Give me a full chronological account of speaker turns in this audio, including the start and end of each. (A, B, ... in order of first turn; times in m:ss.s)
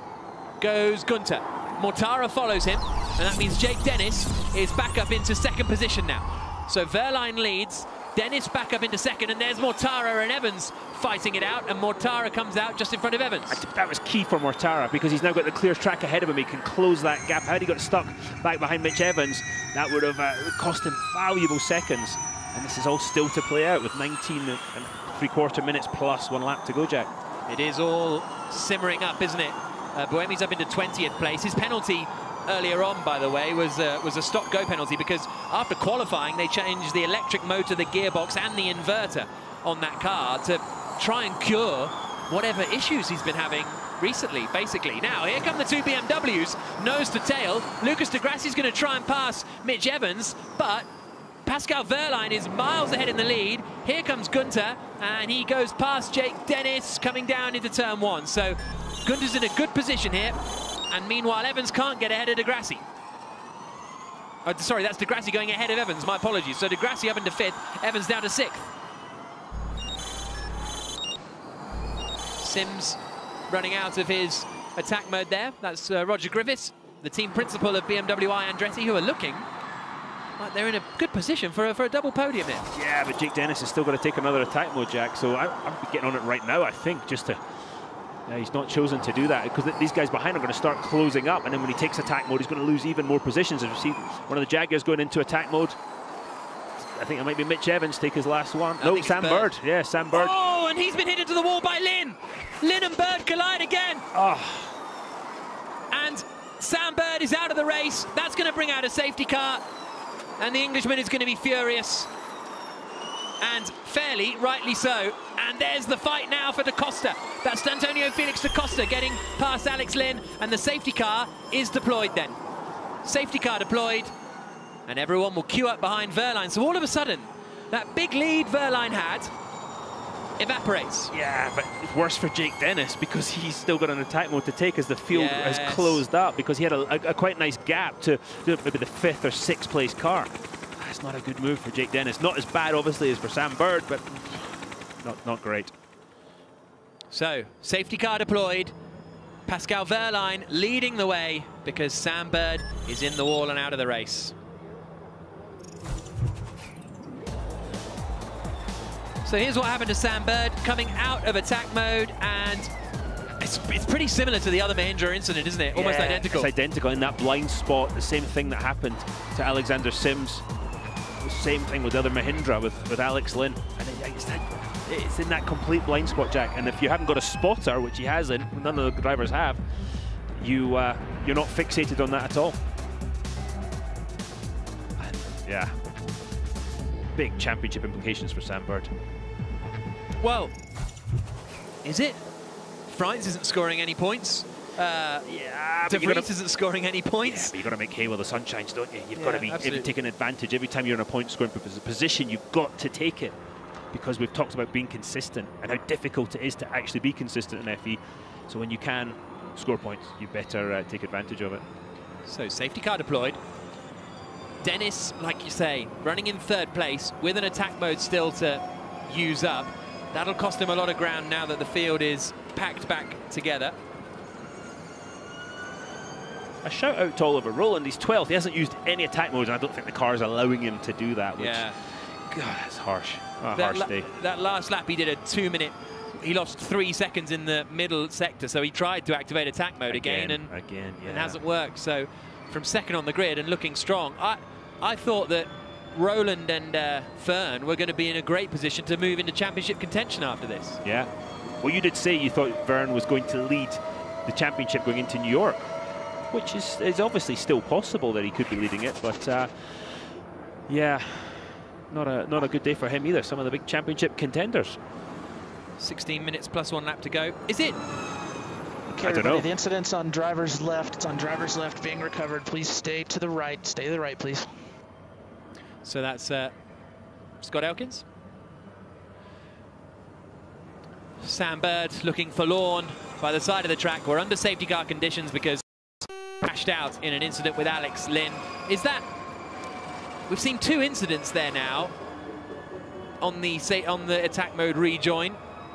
0:00.6-0:13.6 A
0:13.5-0:27.1 B
0:27.5-0:50.9 A
0:51.4-1:00.4 A
1:00.9-1:02.8 A
1:04.4-1:08.7 A
1:12.4-1:13.0 A
1:13.5-1:19.4 A
1:20.4-1:22.6 A
1:22.7-1:27.4 B
1:28.3-1:35.8 B
1:36.8-1:40.3 B
1:38.8-1:39.5 A
1:40.1-1:44.1 A
1:44.1-1:44.7 B
1:45.9-1:49.6 A
1:50.4-1:52.1 A
1:53.4-2:02.4 A
2:03.0-2:04.1 A
2:04.9-2:09.3 A
2:10.4-2:11.1 A
2:11.1-2:25.7 B
2:15.1-2:16.0 A
2:27.1-2:28.7 A
2:29.5-2:34.3 A
2:39.2-2:42.7 A
2:43.4-2:46.5 A
2:45.7-2:50.4 B
2:51.2-2:59.6 B
3:00.4-3:02.6 B
3:05.0-3:05.7 B
3:07.1-3:08.9 B
3:10.2-3:10.5 A
3:11.8-3:12.2 A
3:12.9-3:15.2 A
3:15.3-3:16.3 B
3:15.9-3:17.5 A
3:17.2-3:23.3 B
3:19.2-3:19.9 A
3:23.9-3:31.6 B
3:32.2-3:33.4 A
3:34.6-3:43.8 A
3:46.6-3:51.7 B
3:51.4-3:51.8 A
3:52.3-3:54.1 B
3:53.5-4:00.5 A
3:59.9-4:01.4 B
4:01.0-4:10.8 A
4:10.8-4:11.1 B
4:11.6-4:15.7 B
4:16.3-4:20.0 B
4:20.7-4:24.8 B
4:25.8-4:27.8 A
4:28.9-4:29.5 B
4:29.0-4:34.5 C
4:35.8-4:36.5 A
4:37.4-4:38.0 A
4:41.2-4:45.6 A
4:46.4-4:49.0 A
4:50.3-4:51.9 A
4:53.2-4:55.4 A